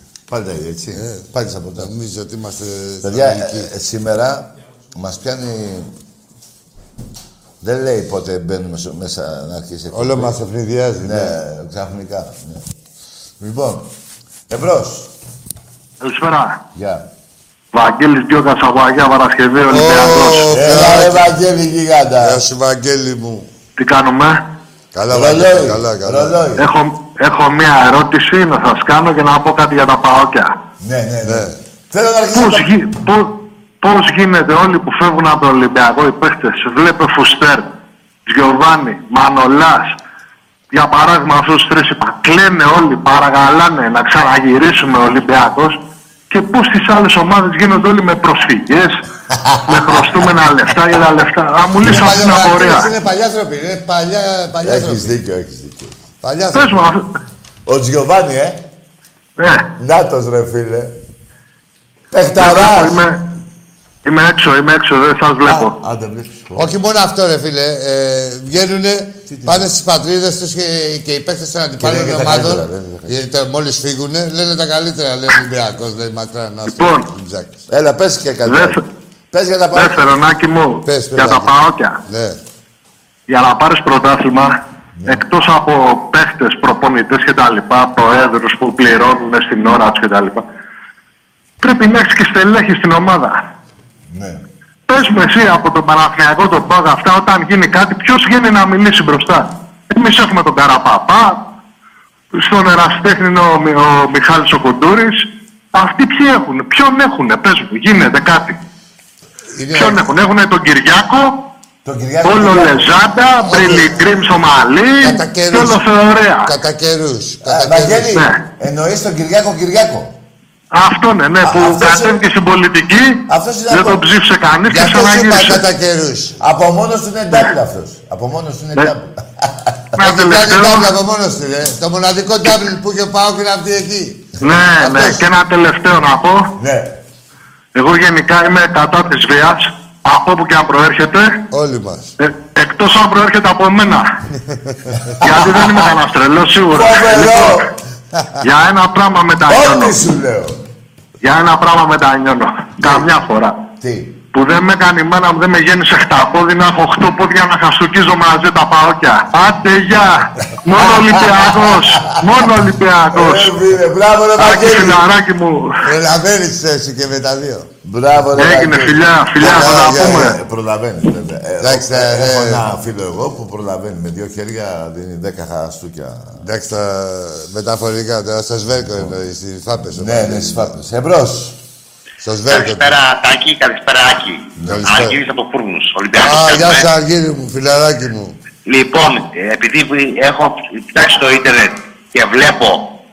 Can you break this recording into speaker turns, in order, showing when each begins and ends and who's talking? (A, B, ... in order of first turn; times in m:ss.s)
0:00.3-0:01.9 A
0:01.0-0:03.7 B
0:03.0-0:05.9 A
0:07.6-0:10.4 A
0:09.9-0:11.3 B
0:11.0-0:12.6 A
0:13.4-0:13.9 A
0:14.5-0:15.1 A
0:16.0-0:16.6 C
0:16.7-0:17.0 A
0:17.7-0:20.5 C
0:19.7-0:21.3 B
0:20.5-0:22.4 A
0:22.2-0:23.5 B
0:23.8-0:24.4 C
0:24.9-0:26.4 B
0:25.1-0:26.6 A
0:26.6-0:30.5 C
0:30.8-0:32.7 A
0:31.2-0:31.6 B
0:32.3-0:37.6 C
0:38.2-0:39.9 C
0:40.7-0:45.8 C
0:46.3-0:49.0 C
0:49.4-0:50.3 A
0:49.7-0:52.9 C
0:51.8-0:55.2 B
0:54.6-0:55.9 A
0:56.2-0:56.9 B
0:56.5-0:57.0 C
0:57.6-0:58.6 A
0:59.4-0:59.6 C
0:59.8-1:00.9 A
1:02.1-1:03.0 A
1:02.4-1:03.2 C
1:04.0-1:05.7 C
1:05.4-1:06.7 A
1:06.6-1:17.6 B
1:09.3-1:09.7 A
1:11.8-1:13.2 A
1:16.7-1:17.0 C
1:17.7-1:18.8 A
1:18.4-1:18.8 C
1:19.3-1:20.1 A
1:19.7-1:22.0 C
1:20.8-1:21.5 B
1:22.0-1:22.4 B
1:23.3-1:30.4 C
1:25.0-1:25.2 A
1:31.6-1:33.4 C
1:34.1-1:34.4 A
1:34.9-1:41.4 C
1:42.3-1:48.6 C
1:49.5-1:50.0 B
1:49.7-1:51.3 C
1:51.8-1:54.3 A
1:52.2-1:56.5 C
1:53.5-1:53.9 B
1:55.0-1:55.8 B
1:56.4-1:58.1 B
1:57.4-2:00.2 A
1:58.0-1:58.4 C
2:00.7-2:05.6 C
2:01.4-2:02.2 A
2:03.3-2:04.0 A
2:04.7-2:06.4 B
2:06.4-2:09.9 A
2:10.0-2:10.9 C
2:10.0-2:14.3 B
2:14.4-2:16.5 C
2:14.8-2:15.1 B
2:16.6-2:17.0 A
2:17.7-2:21.4 C
2:21.5-2:22.1 B
2:22.2-2:24.1 C
2:24.5-2:24.8 B
2:25.2-2:25.9 A
2:25.2-2:27.6 C
2:26.7-2:27.7 A
2:28.4-2:30.0 C
2:29.5-2:30.6 A
2:31.2-2:33.6 C
2:32.8-2:33.1 A
2:33.8-2:34.2 A
2:34.3-2:43.6 C
2:40.8-2:42.2 A
2:43.1-2:45.0 A
2:44.4-2:45.8 C
2:45.8-2:47.7 B
2:47.8-2:56.4 A
2:48.4-2:50.4 C
2:49.4-2:50.2 B
2:51.6-2:52.6 B
2:56.4-3:00.7 B
2:59.9-3:01.6 A
3:02.2-3:02.9 B
3:02.5-3:06.9 D
3:04.6-3:04.9 A
3:04.6-3:05.2 B
3:06.2-3:08.4 B
3:08.6-3:12.9 D